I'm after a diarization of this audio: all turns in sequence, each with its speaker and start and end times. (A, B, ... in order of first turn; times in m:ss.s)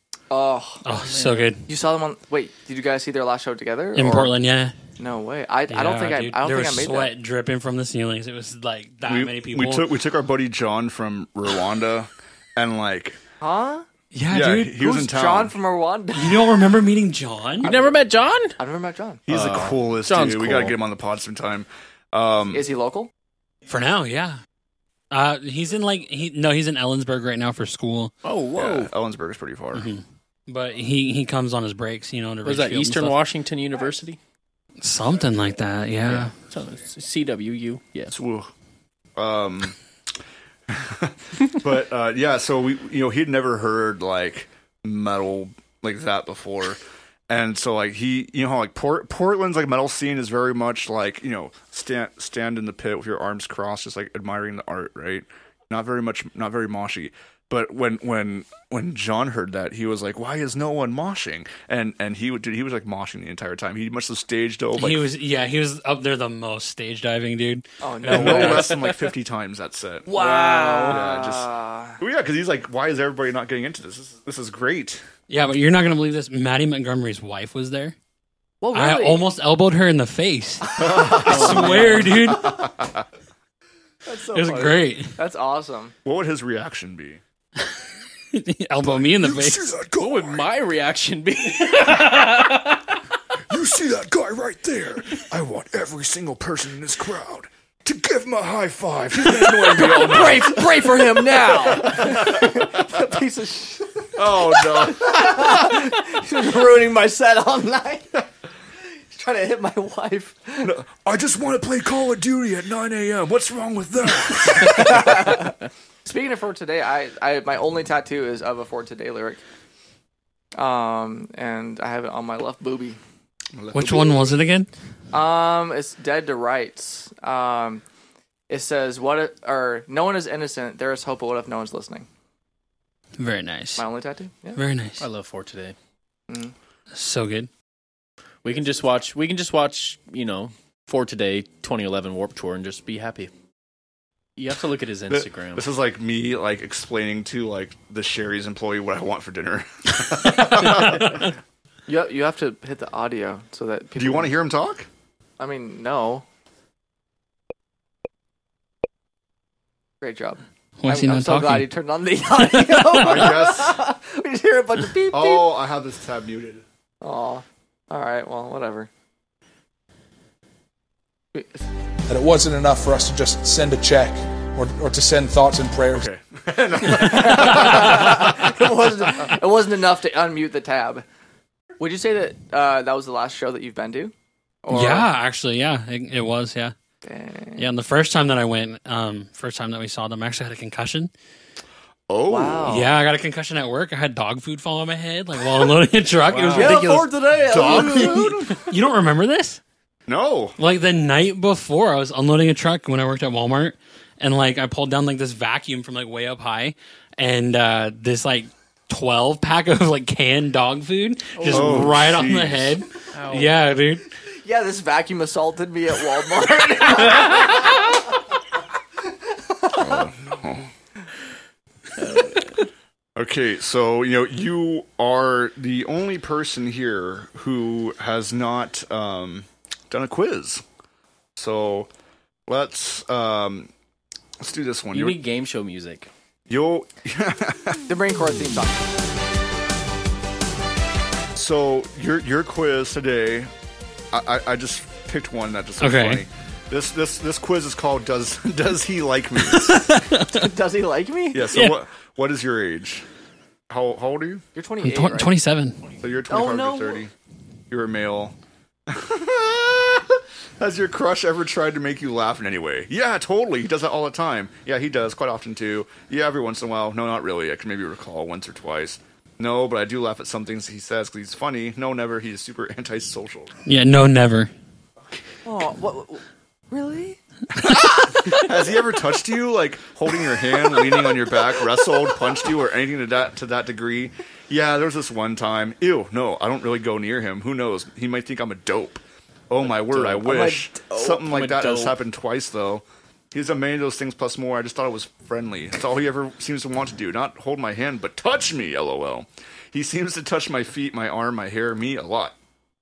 0:00.3-0:00.8 A
0:00.8-0:01.6 B
0:01.0-0:01.5 C
0:01.7-0:04.3 A
0:04.0-0:04.8 B
0:05.0-0:07.1 A
0:05.7-0:09.9 B
0:09.1-0:13.2 D
0:13.4-0:13.9 A
0:14.1-0:14.8 B
0:14.3-0:15.6 D
0:14.8-0:16.6 A
0:16.2-0:17.7 B
0:17.6-0:18.0 A
0:17.6-0:18.6 C
0:18.6-0:19.2 A
0:19.3-0:22.6 D
0:19.3-0:20.8 C
0:22.5-0:23.1 A
0:23.7-0:24.4 B
0:25.1-0:28.1 B
0:28.2-0:28.9 C
0:28.5-0:29.9 D
0:29.7-0:33.2 B
0:32.4-0:34.2 C
0:34.8-0:36.3 B
0:36.1-0:38.2 C
0:38.1-0:38.5 D
0:39.2-0:39.8 D
0:40.7-1:05.1 D
1:04.8-1:08.8 B
1:07.8-1:08.8 A
1:08.1-1:15.0 D
1:10.1-1:12.0 A
1:10.2-1:10.9 C
1:15.3-1:18.0 B
1:18.6-1:19.2 A
1:18.7-1:22.7 B
1:20.7-1:21.8 A
1:20.8-1:23.0 D
1:21.2-1:22.2 C
1:24.1-1:26.0 A
1:24.3-1:25.1 B
1:26.0-1:27.2 D
1:28.3-1:29.7 B
1:28.8-1:30.5 D
1:30.0-1:32.9 C
1:33.5-1:43.0 D
1:39.4-1:48.2 A
1:44.2-1:45.9 D
1:49.0-1:50.7 A
1:50.6-1:55.4 D
1:54.5-1:59.4 A
2:00.6-2:03.0 A
2:03.6-2:04.4 D
2:03.7-2:04.7 B
2:05.1-2:07.8 A
2:08.5-2:12.1 A
2:13.2-2:13.8 B
2:13.8-2:14.6 A
2:14.6-2:15.1 B
2:15.0-2:15.8 C
2:16.3-2:16.6 A
2:16.9-2:17.5 B
2:18.4-2:23.3 C
2:24.4-2:25.6 C
2:25.1-2:31.3 D
2:30.6-2:31.3 B
2:31.9-2:34.3 A
2:34.0-2:34.9 D
2:35.4-2:36.2 A
2:40.0-2:45.5 A
2:40.8-2:41.7 B
2:42.4-2:43.3 B
2:43.0-2:43.8 D
2:45.1-2:46.6 D
2:47.0-2:48.9 A
2:51.3-2:51.6 A
2:52.1-2:56.1 E
2:55.9-2:58.6 D
2:56.8-3:01.0 A
3:01.8-3:04.1 A
3:04.6-3:05.1 A
3:04.7-3:06.7 B
3:07.0-3:07.7 A
3:07.6-3:11.1 B
3:12.1-3:12.8 D
3:12.3-3:12.9 A
3:12.7-3:19.6 B
3:16.3-3:16.8 D
3:16.5-3:18.5 A
3:17.5-3:18.6 D
3:20.1-3:20.6 D
3:20.6-3:34.0 B
3:31.4-3:31.9 C
3:31.5-3:32.8 D
3:33.1-3:33.6 C
3:34.4-3:38.0 A
3:39.3-3:40.1 A
3:39.7-3:40.7 D
3:42.0-3:42.6 C
3:43.2-3:50.6 D
3:51.4-3:51.9 D
3:52.5-3:53.7 D
3:54.4-3:55.2 D
3:54.9-3:56.1 C
3:56.5-3:57.9 D
3:57.9-3:58.8 A
4:01.4-4:03.5 D
4:04.1-4:10.0 D
4:05.8-4:06.2 B
4:09.5-4:10.4 B
4:10.3-4:11.5 A
4:11.3-4:13.1 D
4:11.5-4:11.8 B
4:13.7-4:14.4 D
4:14.6-4:15.3 A
4:14.8-4:15.8 B
4:16.0-4:17.1 D
4:16.3-4:17.0 A
4:17.7-4:18.4 D
4:18.9-4:33.6 D
4:33.7-4:34.5 B
4:35.4-4:37.2 A
4:37.6-5:02.4 D
4:49.9-4:51.4 A
4:51.3-4:51.9 C